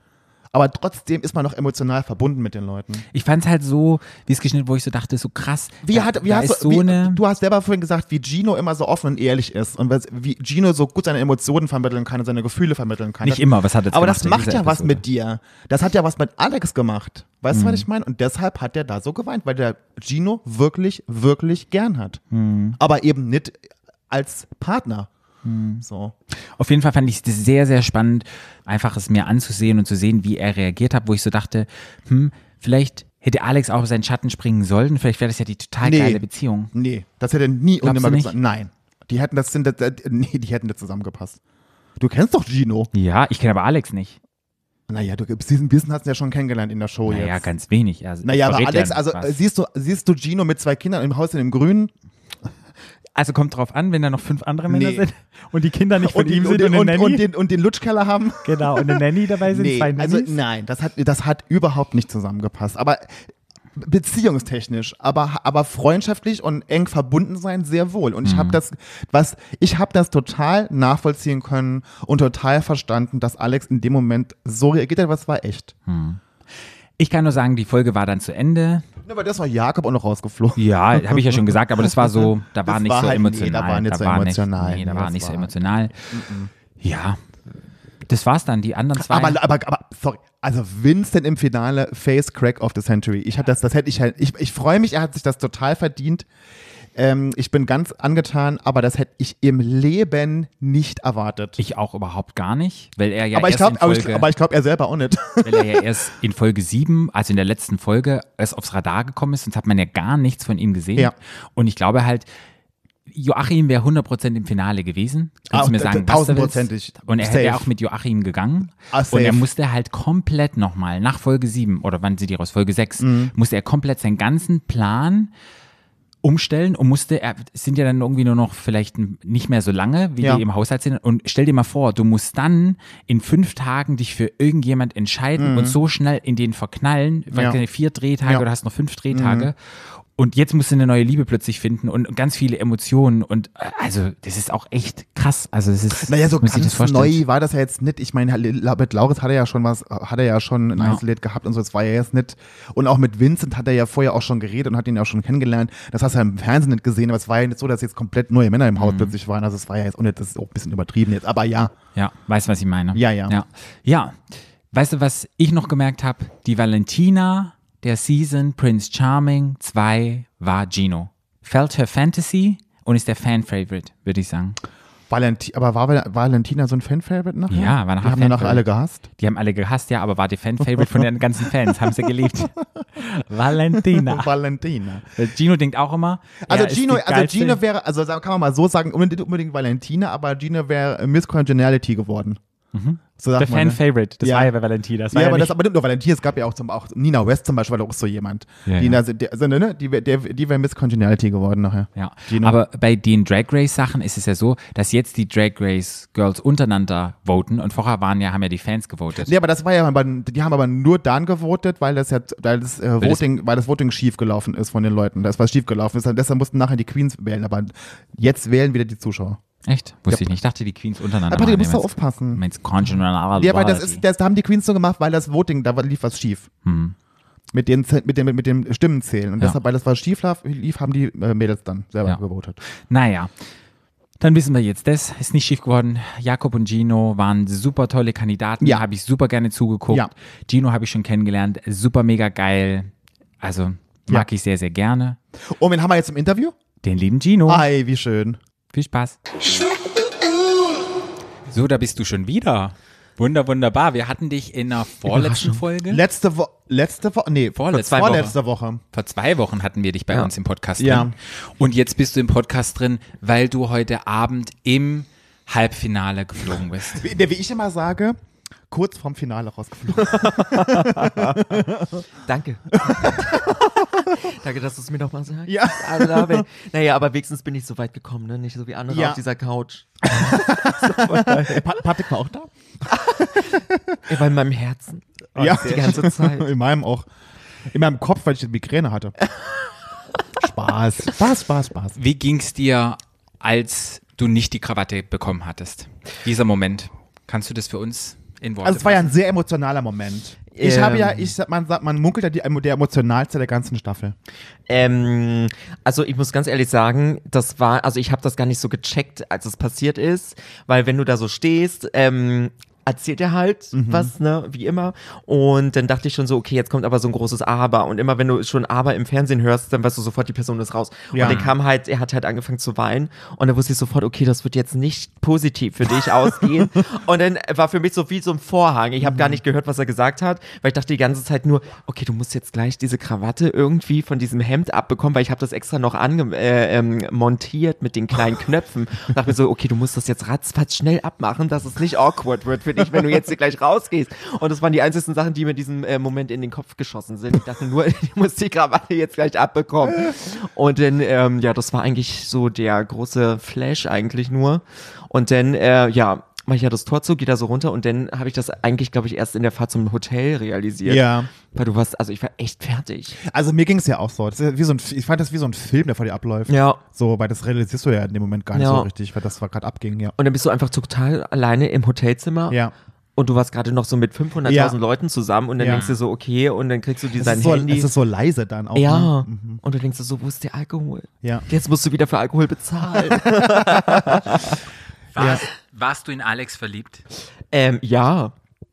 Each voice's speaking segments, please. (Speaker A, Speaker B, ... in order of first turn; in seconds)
Speaker A: 0.5-3.0, 5.8-22.2, 22.8-25.1, 25.8-26.1, 35.8-36.2, 36.7-41.4, 42.0-42.9, 44.9-47.5, 48.2-51.9, 54.7-55.1, 56.0-75.7, 79.0-85.6, 86.1-86.5, 89.0-96.3, 97.0-101.6, 103.3-105.9, 115.5-117.7, 118.9-119.5, 123.0-123.3, 135.4-135.8, 137.3-137.6, 139.1-139.5, 146.0-161.7, 162.9-163.4, 175.1-179.0, 180.8-181.1, 183.7-185.2, 186.5-192.4, 193.2-194.5, 195.1-202.6, 209.2-219.4, 221.3-226.5, 227.5-232.6, 238.6-238.9, 245.5-246.6, 247.5-248.4, 255.9-258.8, 260.8-261.1, 266.9-268.1, 268.7-272.0, 272.7-274.1, 275.5-276.4, 278.9-279.2, 280.1-282.5, 283.0-284.1, 285.4-287.1, 287.7-289.1, 290.4-292.0, 298.6-304.1, 313.7-314.1, 321.1-321.4, 329.0-329.4, 360.9-361.3, 363.2-370.1, 374.4-374.8, 375.6-375.9, 377.2-379.6, 383.0-384.4, 385.2-385.4
Speaker B: 3.1-7.2, 13.2-15.0, 17.5-17.9, 22.3-22.8, 25.4-25.8, 26.6-36.7, 37.8-38.4, 42.9-44.2, 47.1-49.4, 53.1-57.3, 58.4-60.4, 68.2-68.6, 75.9-76.2, 77.0-78.9, 80.6-86.0, 86.8-87.2, 88.1-89.4, 101.6-104.3, 105.4-112.3, 113.1-125.3, 126.2-147.2, 150.8-151.0, 158.8-159.1, 161.9-164.2, 164.7-174.6, 177.5-184.3, 185.2-187.6, 192.7-195.5, 198.7-199.0, 201.9-209.3, 219.6-224.0, 226.6-226.9, 232.1-233.3, 234.2-242.9, 243.4-245.2, 246.8-247.7, 248.7-249.2, 251.5-256.0, 257.6-258.4, 258.9-267.1, 291.9-299.1, 321.2-321.6, 375.7-376.0, 385.1-387.0
Speaker C: 255.1-255.6, 270.1-271.6, 272.3-281.8, 282.9-286.5, 300.6-301.3, 304.7-363.2, 366.5-366.8, 368.5-368.9, 370.2-372.6, 373.2-377.9, 378.8-384.6, 387.5-388.3